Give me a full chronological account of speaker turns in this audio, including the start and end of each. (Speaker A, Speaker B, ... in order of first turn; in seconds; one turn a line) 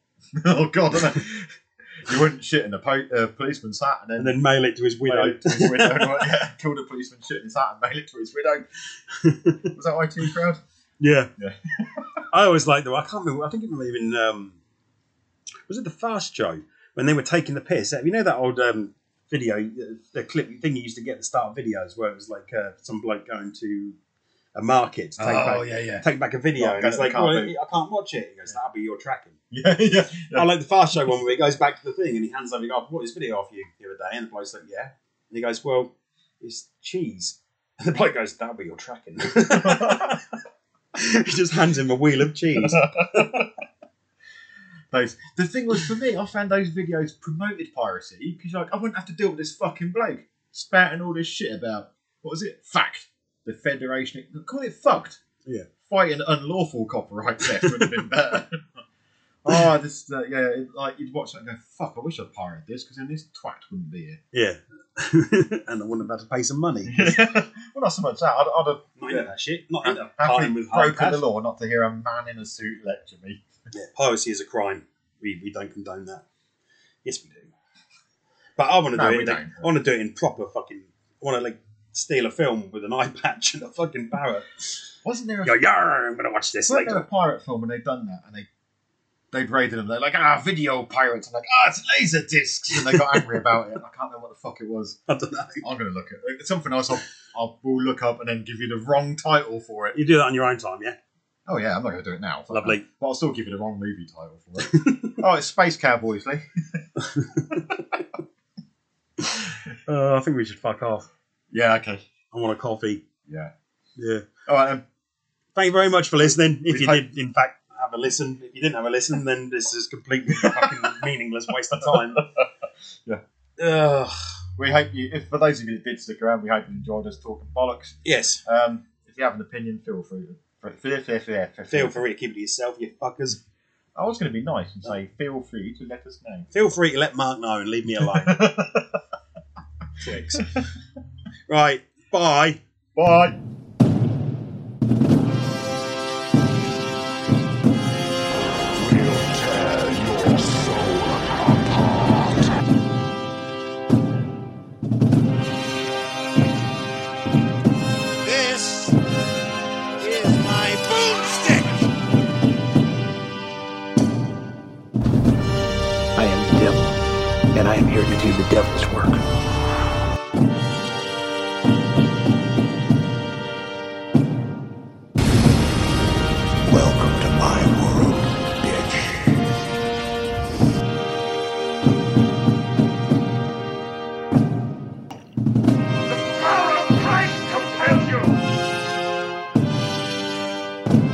Speaker A: 0.3-4.4
Speaker B: 4.2-6.3
Speaker A: 5.0-8.6
Speaker B: 9.1-9.7
Speaker A: 9.7-10.6
Speaker B: 11.0-11.3
Speaker A: 11.4-12.2
Speaker B: 12.3-14.6
Speaker B: 15.7-24.0
Speaker B: 24.6-29.4
Speaker A: 25.2-27.5
Speaker A: 29.5-30.5
Speaker B: 30.3-40.3
Speaker A: 39.5-40.2
Speaker B: 41.0-43.5
Speaker A: 42.6-43.5
Speaker A: 44.9-55.2
Speaker A: 55.9-58.7
Speaker B: 57.6-58.0
Speaker A: 59.4-64.2
Speaker B: 64.3-67.2
Speaker A: 66.9-73.4
Speaker B: 69.0-71.2
Speaker B: 73.7-76.2
Speaker B: 77.0-77.5
Speaker B: 78.6-84.8
Speaker A: 78.9-79.7
Speaker A: 85.0-85.6
Speaker B: 85.4-87.0
Speaker A: 86.7-88.5
Speaker A: 89.3-95.0
Speaker B: 92.7-93.6
Speaker B: 95.1-95.6
Speaker A: 95.6-100.0
Speaker B: 99.9-101.0
Speaker A: 101.5-106.8
Speaker B: 102.5-102.8
Speaker B: 104.6-105.2
Speaker B: 107.0-108.0
Speaker A: 107.5-108.0
Speaker B: 109.2-111.1
Speaker A: 111.5-112.0
Speaker B: 112.3-113.0
Speaker A: 113.3-113.5
Speaker B: 114.0-114.3
Speaker A: 114.5-114.8
Speaker B: 115.6-122.3
Speaker A: 116.2-117.1
Speaker A: 120.4-120.8
Speaker A: 121.8-122.5
Speaker B: 123.6-124.4
Speaker A: 124.6-132.0
Speaker B: 128.0-128.4
Speaker B: 131.7-133.4
Speaker A: 133.9-136.5
Speaker B: 136.5-138.4
Speaker A: 138.0-139.0
Speaker B: 140.0-140.6
Speaker B: 141.5-142.6
Speaker A: 142.9-143.4
Speaker C: 148.7-152.4
Speaker C: 158.2-159.0
Speaker C: 160.0-161.9
Speaker C: 166.2-166.9
Speaker C: 167.5-169.2
Speaker C: 176.6-179.4
Speaker C: 186.1-188.4